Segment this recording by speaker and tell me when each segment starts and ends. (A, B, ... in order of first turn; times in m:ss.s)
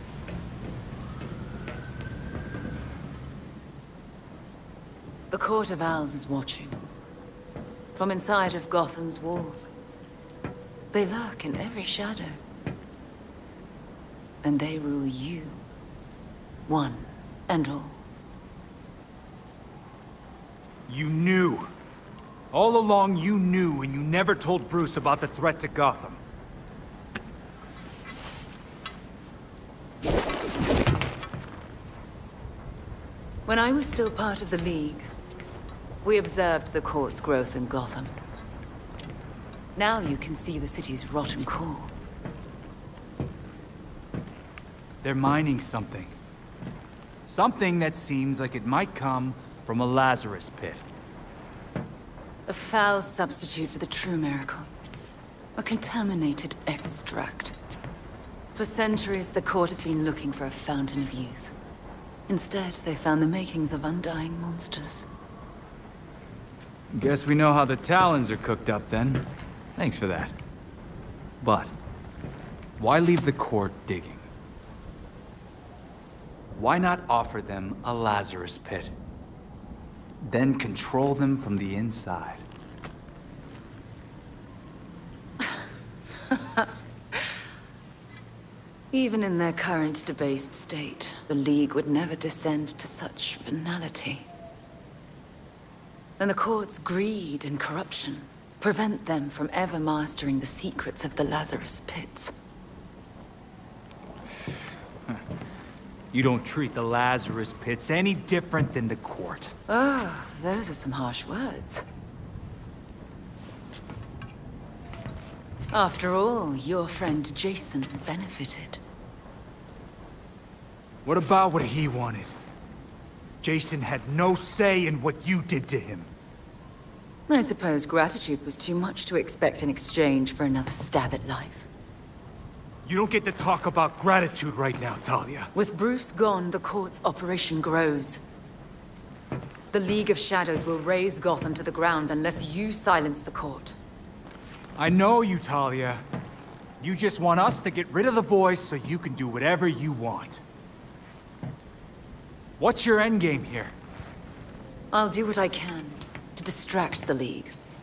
0:05.3-0:06.8 A
0:08.0-0:09.7 A
0:10.9-0:12.4 A
0:14.4-0:15.6 A
0:16.7-0:18.0 A
0:20.9-0:21.7 B
0:22.5-0:26.2 B
0:33.5-0:35.1 A
0:36.0-0:38.2 A
0:39.8-0:41.9 A
0:45.0-0:46.2 B
0:47.3-0:50.8 B
0:52.5-0:54.7 A
0:55.6-0:57.6 A
0:58.6-1:01.5 A
1:02.3-1:05.1 A
1:06.9-1:10.3 B
1:11.4-1:11.7 B
1:12.8-1:14.3 B
1:16.6-1:18.9 B
1:20.2-1:22.4 B
1:26.3-1:26.7 A
1:28.9-1:34.3 A
1:36.2-1:42.4 A
1:46.1-1:49.6 B
1:49.7-1:51.8 A
1:55.7-1:58.8 A
2:01.0-2:02.3 B
2:03.4-2:06.1 B
2:07.3-2:11.7 A
2:12.9-2:15.5 B
2:15.5-2:18.2 A
2:19.7-2:23.8 A
2:24.8-2:26.0 B
2:26.8-2:30.4 B
2:32.6-2:33.7 B
2:34.9-2:37.6 A